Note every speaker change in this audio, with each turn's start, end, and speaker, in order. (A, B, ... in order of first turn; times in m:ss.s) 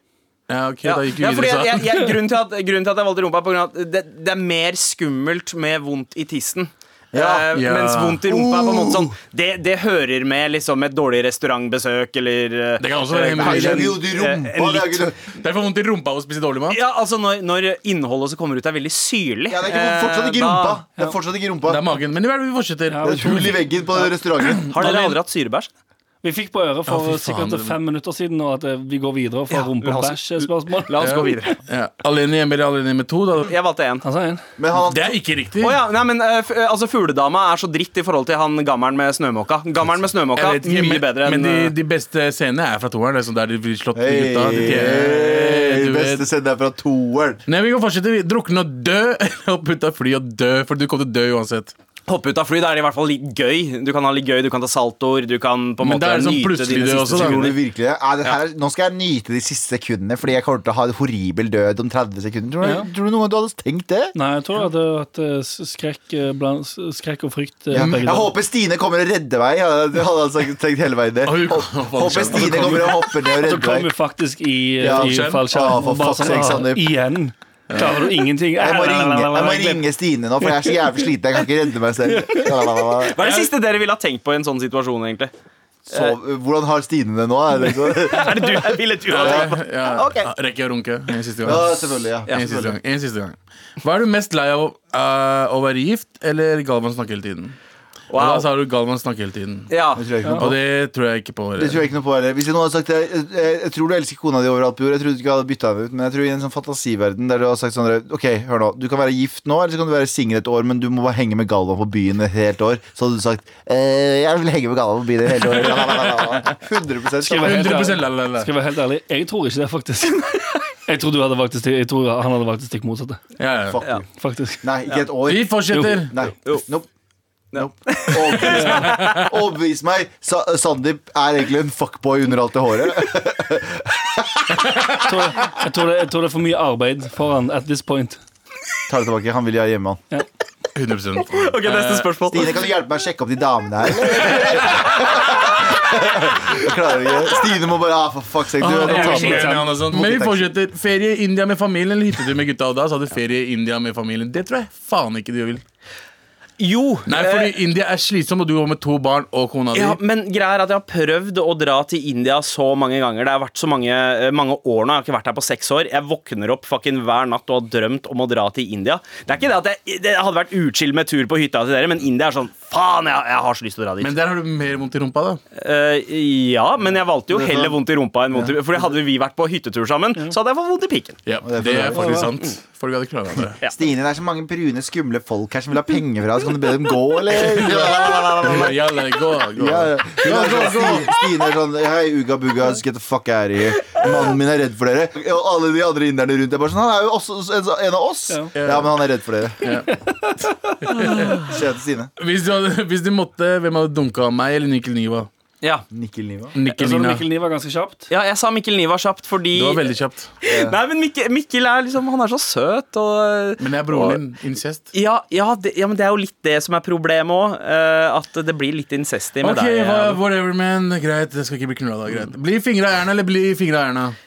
0:00.5-0:02.0 A
0:00.8-0:15.0 B
0:07.1-0:07.5 C
0:07.5-0:08.2 A
0:08.3-0:09.1 C
0:12.8-0:14.0 A
0:13.4-0:15.2 C
0:15.4-0:16.8 A
0:16.7-0:20.8 B
0:19.5-0:21.9 C
0:21.7-0:23.6 A
0:22.9-0:23.6 D
0:23.0-0:24.7 C
0:24.7-0:25.7 B
0:24.8-0:25.1 D
0:26.2-0:31.0 D
0:26.9-0:27.8 A
0:29.5-0:31.6 B
0:31.0-0:33.5 A
0:33.5-0:34.0 B
0:34.0-0:34.4 D
0:34.6-0:35.2 C
0:34.9-0:35.8 A
0:35.6-0:41.7 B
0:40.3-0:46.2 A
0:43.9-0:47.4 C
0:47.5-0:51.7 A
0:52.1-0:57.6 B
0:55.8-0:57.5 A
0:57.1-1:04.1 C
1:02.6-1:02.9 D
1:04.1-1:08.3 D
1:07.7-1:13.9 C
1:07.8-1:08.2 A
1:11.2-1:13.1 A
1:13.4-1:19.8 D
1:14.8-1:16.9 C
1:14.8-1:15.7 A
1:17.7-1:18.0 A
1:18.6-1:23.2 C
1:22.1-1:22.5 D
1:23.0-1:25.3 B
1:25.9-1:28.6 C
1:27.9-1:30.3 B
1:29.1-1:31.8 A
1:31.4-1:32.8 C
1:32.3-1:37.6 A
1:38.1-1:38.5 B
1:38.1-1:39.7 A
1:39.7-1:40.0 B
1:40.0-1:40.6 C
1:40.4-1:41.8 A
1:41.6-1:57.9 C
1:55.5-1:56.5 A
1:57.2-2:03.2 D
1:57.3-1:58.5 A
2:03.4-2:03.8 A
2:03.7-2:04.0 C
2:04.2-2:04.6 D
2:04.6-2:06.9 C
2:05.2-2:06.2 A
2:05.7-2:06.0 D
2:07.5-2:09.2 B
2:07.5-2:14.5 C
2:08.5-2:08.9 D
2:08.8-2:09.2 A
2:15.0-2:18.2 D
2:18.9-2:20.0 C
2:20.7-2:22.1 A
2:21.3-2:22.6 B
2:22.3-2:30.5 C
2:24.1-2:24.5 B
2:28.6-2:35.6 A
2:28.8-2:29.7 D
2:36.6-2:37.6 B
2:37.1-2:40.0 A
2:39.7-2:54.1 B
2:54.0-2:55.4 A
2:55.5-3:01.2 B
2:57.3-2:57.8 C
3:01.2-3:03.6 A
3:01.4-3:02.3 C
3:01.9-3:02.3 D
3:03.6-3:08.8 C
3:07.3-3:08.7 B
3:08.4-3:11.1 A
3:09.6-3:19.6 C
3:18.6-3:19.0 A
3:19.6-3:19.9 A
3:19.8-3:21.2 D
3:20.8-3:21.5 A
3:21.4-3:22.1 C
3:22.2-3:25.3 A
3:25.9-3:26.6 C
3:26.5-3:27.2 A
3:26.6-3:28.1 D
3:28.1-3:29.9 B
3:29.5-3:30.3 A
3:30.4-3:34.2 B
3:30.4-3:30.8 C
3:33.6-3:34.9 A
3:34.9-3:40.2 B
3:39.4-3:44.2 A